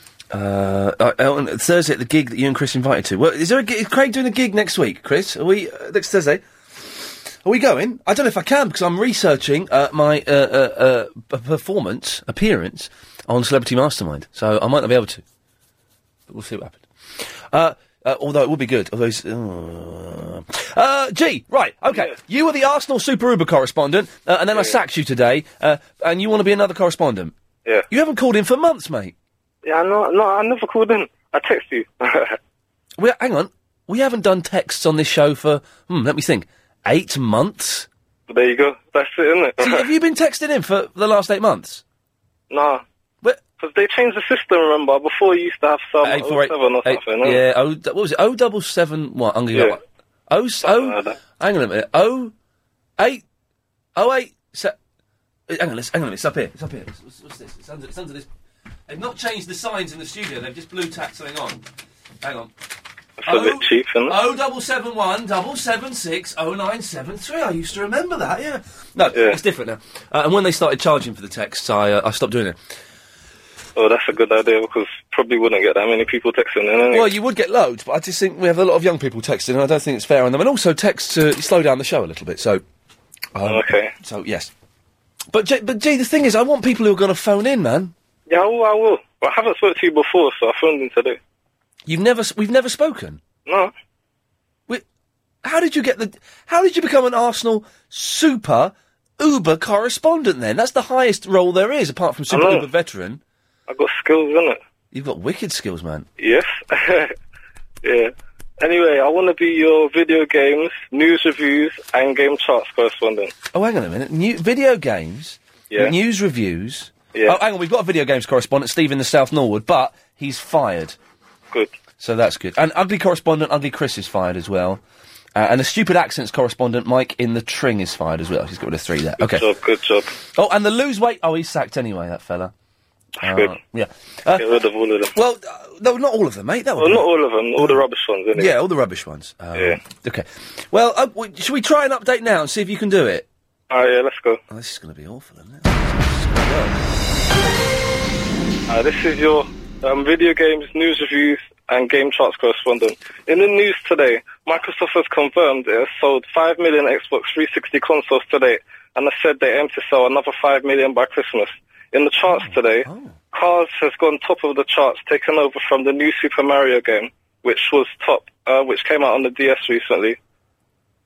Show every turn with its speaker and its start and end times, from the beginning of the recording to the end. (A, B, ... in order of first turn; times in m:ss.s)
0:00.3-0:15.2 A
0:16.3-0:27.3 A
0:27.9-0:29.1 A
0:29.6-0:32.4 B
0:33.0-0:37.9 A
0:38.3-0:39.8 B
0:39.6-0:41.8 A
0:42.5-0:42.8 B
0:43.5-0:47.4 B
0:46.0-0:52.3 A
0:50.6-0:51.2 B
0:53.0-0:53.2 A
0:54.0-0:54.7 A
0:55.5-0:58.3 A
0:58.9-1:01.6 A
1:02.2-1:02.5 A
1:03.2-1:04.1 B
1:03.2-1:12.6 A
1:13.8-1:17.1 B
1:16.9-1:22.6 A
1:23.3-1:24.5 A
1:23.4-1:23.9 B
1:25.3-1:27.9 A
1:28.3-1:31.2 B
1:31.8-1:33.2 A
1:33.4-1:33.7 B
1:35.4-1:43.2 A
1:42.3-1:42.6 B
1:43.7-1:44.6 B
1:44.9-1:46.1 A
1:46.2-1:47.1 B
1:47.8-1:53.3 B
1:53.5-2:01.0 A
2:02.0-2:04.8 A
2:05.3-2:09.4 A
2:09.2-2:10.1 B
2:10.3-2:12.5 A
2:13.2-2:13.5 B
2:13.2-2:14.5 A
2:14.4-2:15.1 B
2:15.1-2:17.0 A
2:16.8-2:18.5 B
2:18.3-2:23.3 A
2:23.7-2:24.4 B
2:24.5-2:26.8 A
2:28.7-2:50.2 B
2:42.3-2:43.2 A